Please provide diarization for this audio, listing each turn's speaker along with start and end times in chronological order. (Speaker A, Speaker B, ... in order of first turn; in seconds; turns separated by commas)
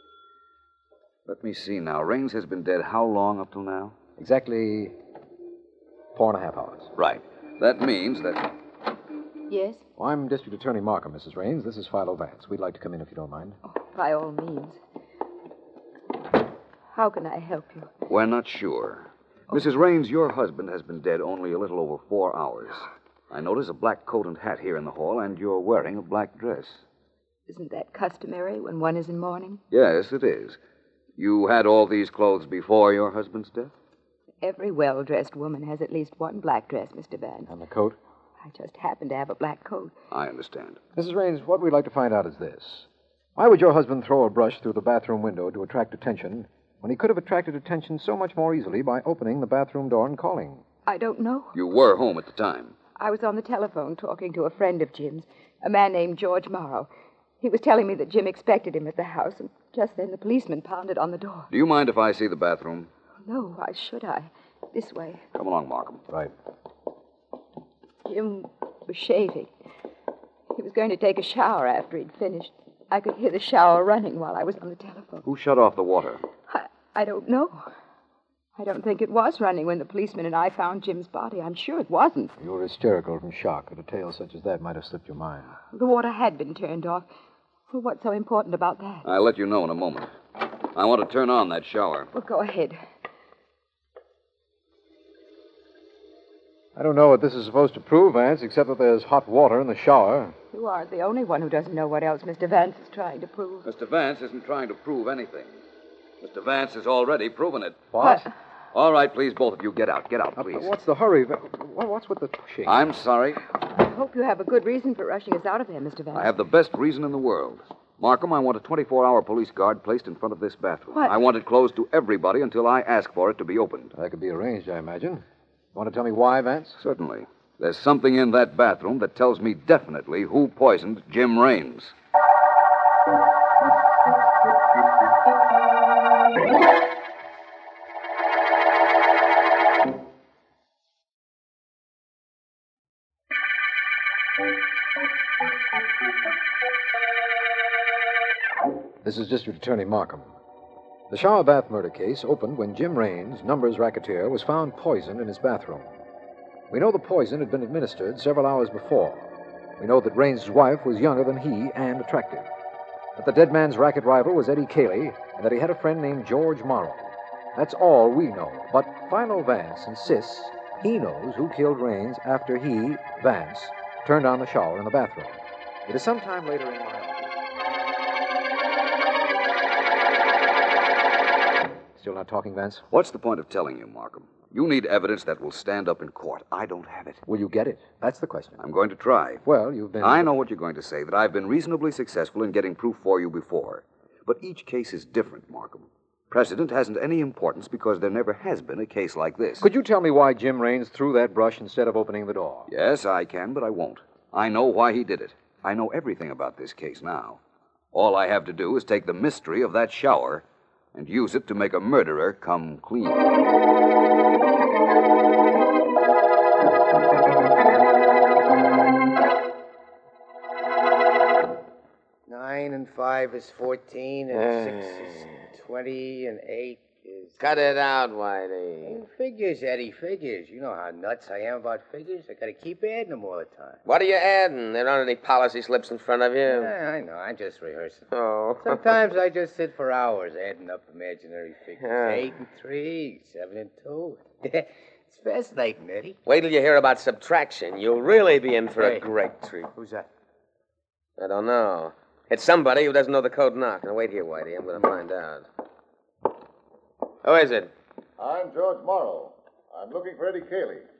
Speaker A: 1.3-4.0, Speaker B: 4.2-5.0, Speaker B: 6.1-6.9, Speaker A: 7.0-8.5, Speaker C: 9.5-9.8, Speaker B: 10.0-13.6, Speaker C: 13.7-14.8, Speaker C: 16.9-17.9, Speaker A: 18.1-26.8, Speaker C: 27.5-29.6, Speaker A: 29.7-30.6, Speaker A: 31.2-33.7, Speaker C: 34.4-37.5, Speaker B: 37.5-38.0, Speaker C: 38.4-39.9, Speaker A: 40.1-40.8, Speaker B: 41.0-50.6, Speaker C: 50.9-51.6, Speaker A: 51.5-52.8, Speaker C: 53.0-56.9, Speaker C: 57.4-61.5, Speaker A: 61.5-62.9, Speaker C: 63.2-65.2, Speaker A: 65.3-66.0, Speaker C: 68.0-69.5, Speaker C: 70.5-75.2, Speaker A: 75.2-76.2, Speaker C: 76.5-77.6, Speaker C: 78.6-82.3, Speaker B: 82.4-85.6, Speaker C: 85.7-87.1, Speaker C: 87.7-89.1, Speaker A: 89.0-90.1, Speaker A: 90.7-92.1, Speaker C: 92.1-92.8, Speaker B: 96.8-100.4, Speaker C: 100.5-103.7, Speaker A: 103.6-105.6, Speaker A: 106.2-107.9, Speaker B: 107.9-108.3, Speaker A: 108.7-110.7, Speaker B: 110.4-112.8, Speaker A: 112.7-113.4, Speaker C: 113.7-116.3, Speaker A: 116.1-123.9, Speaker B: 124.0-126.8, Speaker A: 126.8-131.9, Speaker B: 149.0-150.3, Speaker B: 151.1-155.9, Speaker B: 156.7-162.5, Speaker B: 163.2-177.4, Speaker B: 182.0-182.8, Speaker A: 182.9-187.2, Speaker B: 187.2-188.6, Speaker A: 188.6-189.4, Speaker B: 189.4-190.3, Speaker A: 190.0-199.7, Speaker B: 199.6-202.7, Speaker A: 202.7-207.4, Speaker A: 207.9-213.3, Speaker D: 222.3-227.4, Speaker E: 224.3-225.1, Speaker E: 227.4-229.0, Speaker D: 228.8-233.8, Speaker E: 233.9-236.7, Speaker D: 236.4-238.1, Speaker E: 238.1-238.8, Speaker D: 238.6-246.2, Speaker E: 241.8-242.3, Speaker E: 246.3-249.7, Speaker D: 248.8-249.1, Speaker D: 249.7-250.1, Speaker E: 251.2-255.5, Speaker E: 257.2-257.7, Speaker F: 258.2-260.9